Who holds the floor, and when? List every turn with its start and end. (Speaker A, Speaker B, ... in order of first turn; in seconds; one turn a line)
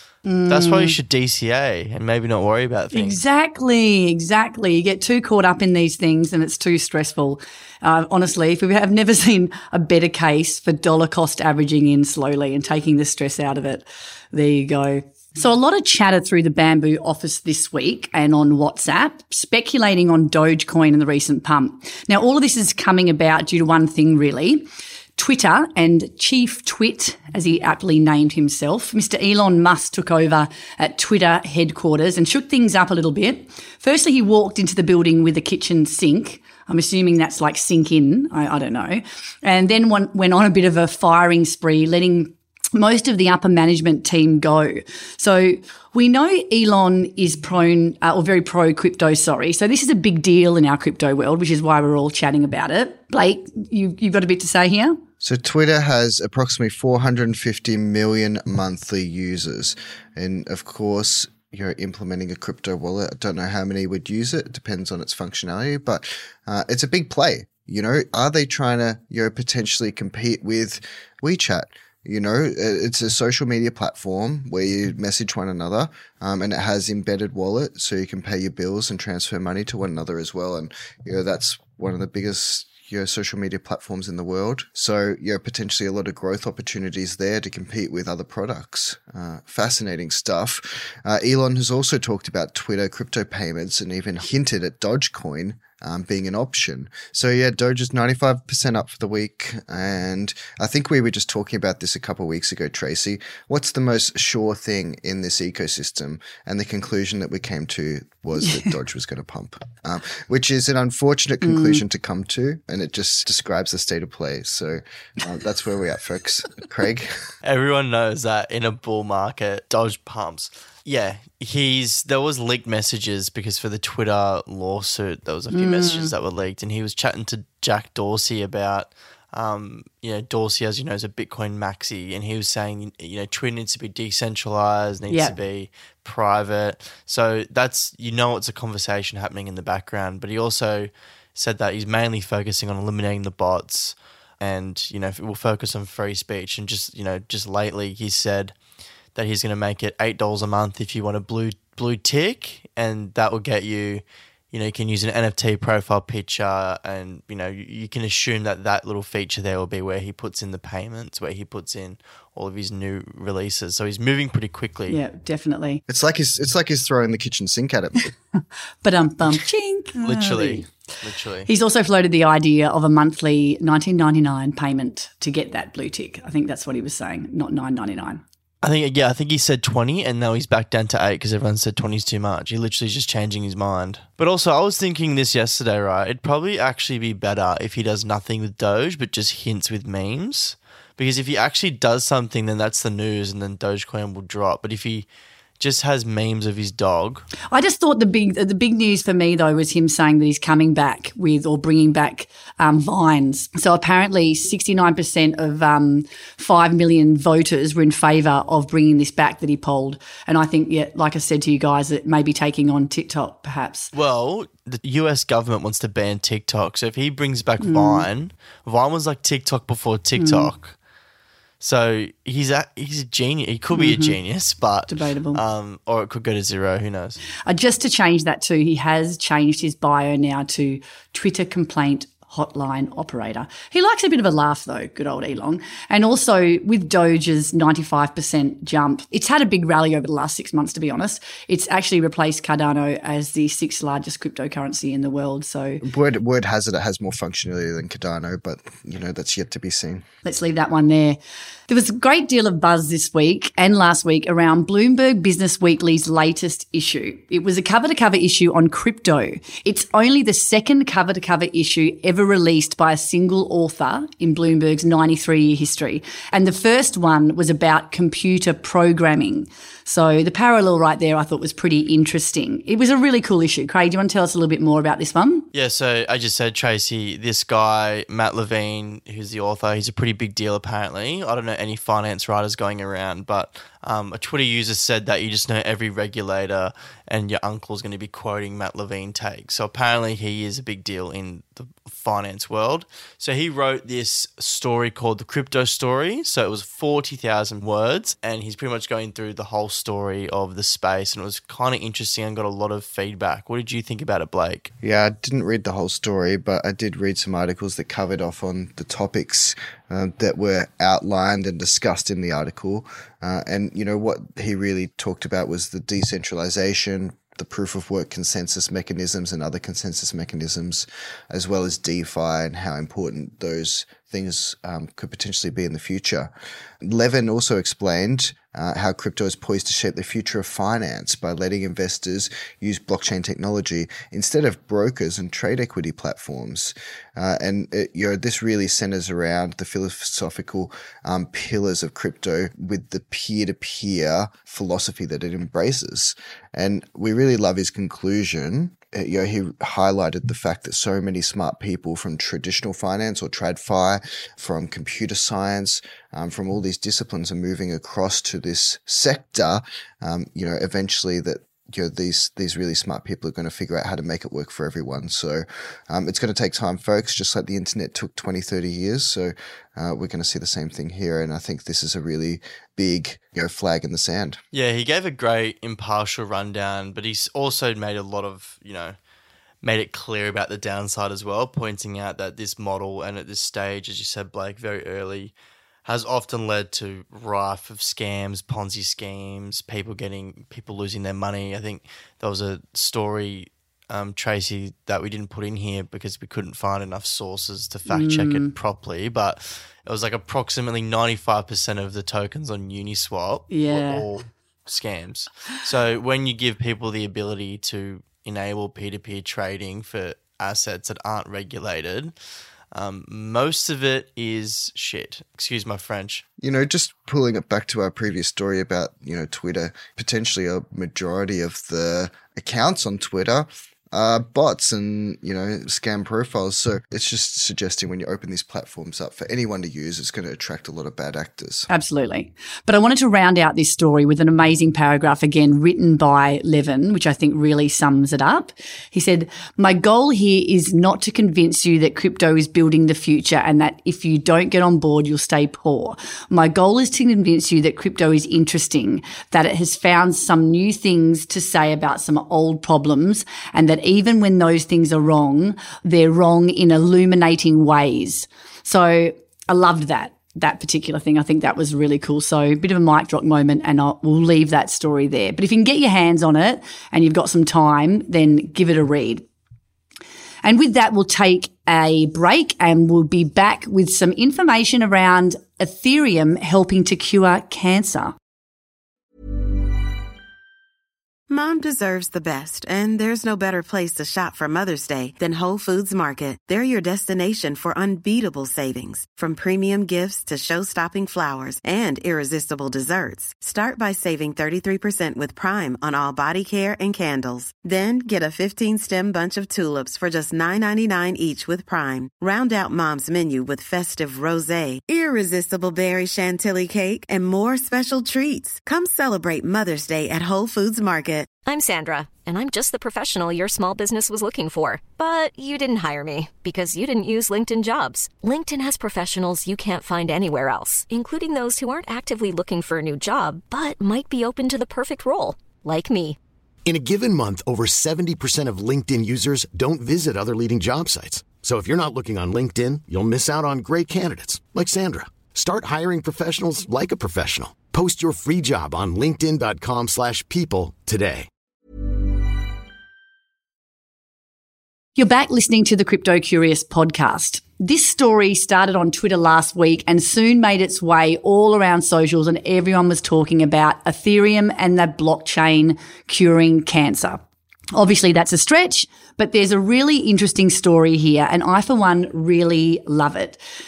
Speaker A: 0.2-1.0
Speaker B: 0.5-3.2
Speaker A: 2.9-55.0
Speaker C: 55.2-117.2
Speaker A: 111.4-111.8
Speaker B: 117.4-148.6
Speaker A: 125.5-126.1
Speaker A: 135.1-135.3
Speaker B: 149.1-165.0
Speaker A: 164.9-165.8
Speaker C: 165.9-168.1
Speaker A: 168.8-170.7
Speaker B: 170.0-171.5
Speaker A: 171.4-178.2
Speaker B: 178.6-195.1
Speaker B: 195.6-197.3
Speaker A: 197.5-213.9
Speaker B: 213.9-220.8
Speaker A: 217.6-218.1
Speaker A: 220.2-220.5
Speaker B: 221.6-227.2
Speaker A: 223.7-224.2
Speaker A: 224.9-225.4
Speaker A: 227.4-245.8
Speaker C: 245.8-250.0
Speaker A: 250.2-251.2
Speaker A: 251.7-275.5
Speaker B: 275.5-304.7
Speaker C: 304.8-374.4
Speaker B: 374.5-378.9
Speaker B: 379.6-385.3
Speaker B: 385.8-412.1
Speaker A: 397.9-398.5
Speaker A: 403.5-404.1
Speaker B: 412.7-416.2
Speaker C: 416.4-431.7
Speaker A: 431.7-469.2
Speaker A: 470.4-478.1
Speaker D: 481.3-511.3
Speaker E: 511.4-526.2
Speaker F: 526.6-541.3
Speaker A: 545.0-557.2
Speaker A: 557.8-563.4